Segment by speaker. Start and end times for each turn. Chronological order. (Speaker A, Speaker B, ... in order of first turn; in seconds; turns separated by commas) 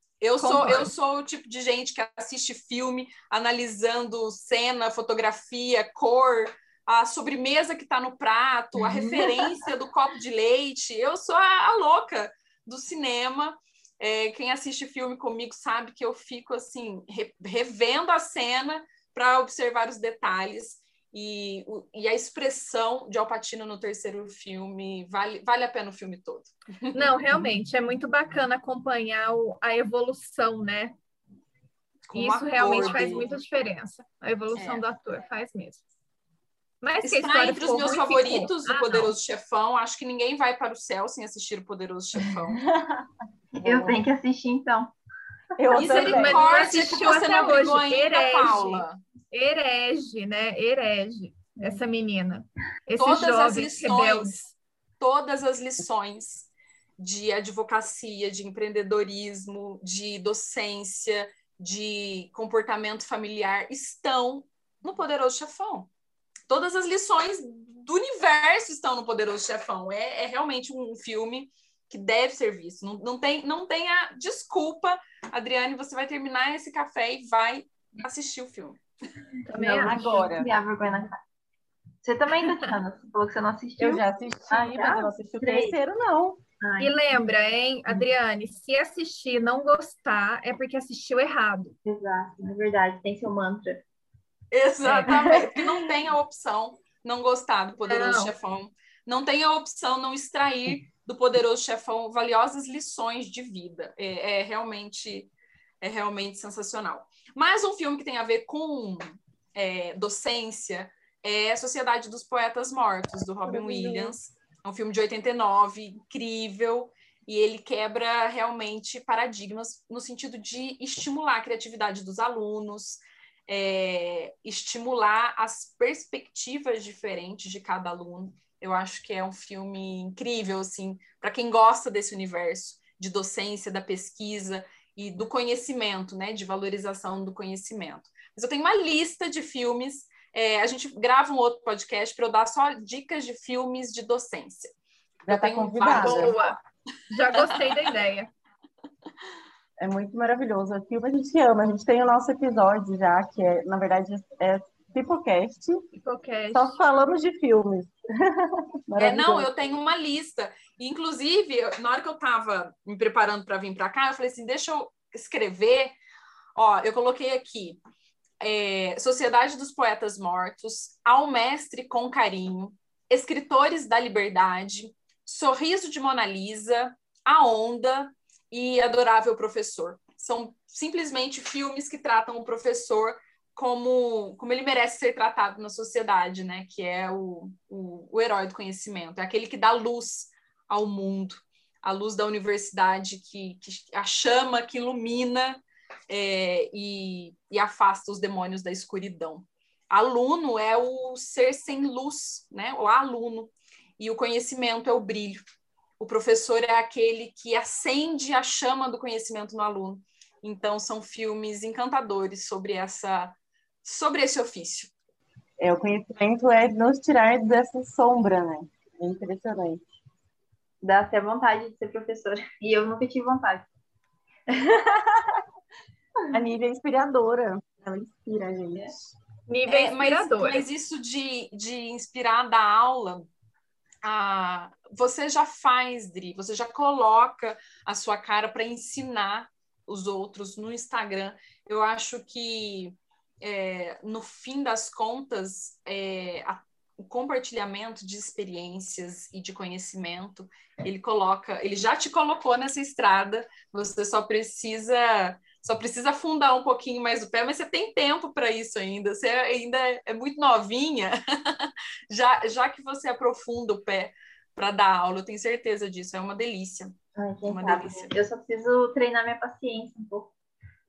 Speaker A: 0.2-27.1, Speaker B: 0.4-0.9, Speaker B: 26.9-30.9, Speaker A: 32.1-33.3, Speaker B: 32.1-35.8, Speaker A: 34.5-34.8, Speaker B: 36.8-39.1, Speaker A: 37.0-42.6, Speaker C: 43.5-44.9, Speaker D: 43.6-44.0, Speaker D: 45.6-46.6, Speaker A: 45.7-49.0, Speaker B: 45.8-54.5, Speaker A: 53.0-54.4, Speaker A: 55.0-65.9, Speaker A: 66.5-78.8, Speaker B: 79.5-80.2, Speaker C: 79.5-81.2, Speaker D: 79.6-80.5, Speaker C: 82.0-85.7, Speaker D: 83.8-86.4, Speaker C: 86.6-86.9, Speaker B: 86.8-91.8, Speaker C: 91.8-93.8, Speaker A: 94.5-105.3, Speaker D: 95.0-95.6, Speaker B: 97.9-98.3, Speaker A: 105.8-144.7, Speaker D: 113.5-114.2, Speaker D: 145.2-146.4, Speaker A: 145.3-146.5, Speaker B: 145.8-146.6, Speaker B: 147.1-148.3, Speaker A: 147.3-147.6, Speaker D: 149.8-155.8, Speaker B: 156.0-156.8, Speaker D: 156.5-159.5, Speaker A: 159.0-165.9, Speaker A: 166.6-167.8, Speaker A: 168.4-205.4, Speaker A: 206.0-214.9, Speaker D: 215.6-219.9, Speaker C: 220.8-223.7, Speaker D: 224.7-225.2, Speaker D: 226.3-229.1, Speaker B: 229.5-230.6, Speaker A: 229.7-233.3, Speaker A: 234.0-266.9, Speaker C: 267.2-270.3, Speaker A: 267.5-268.1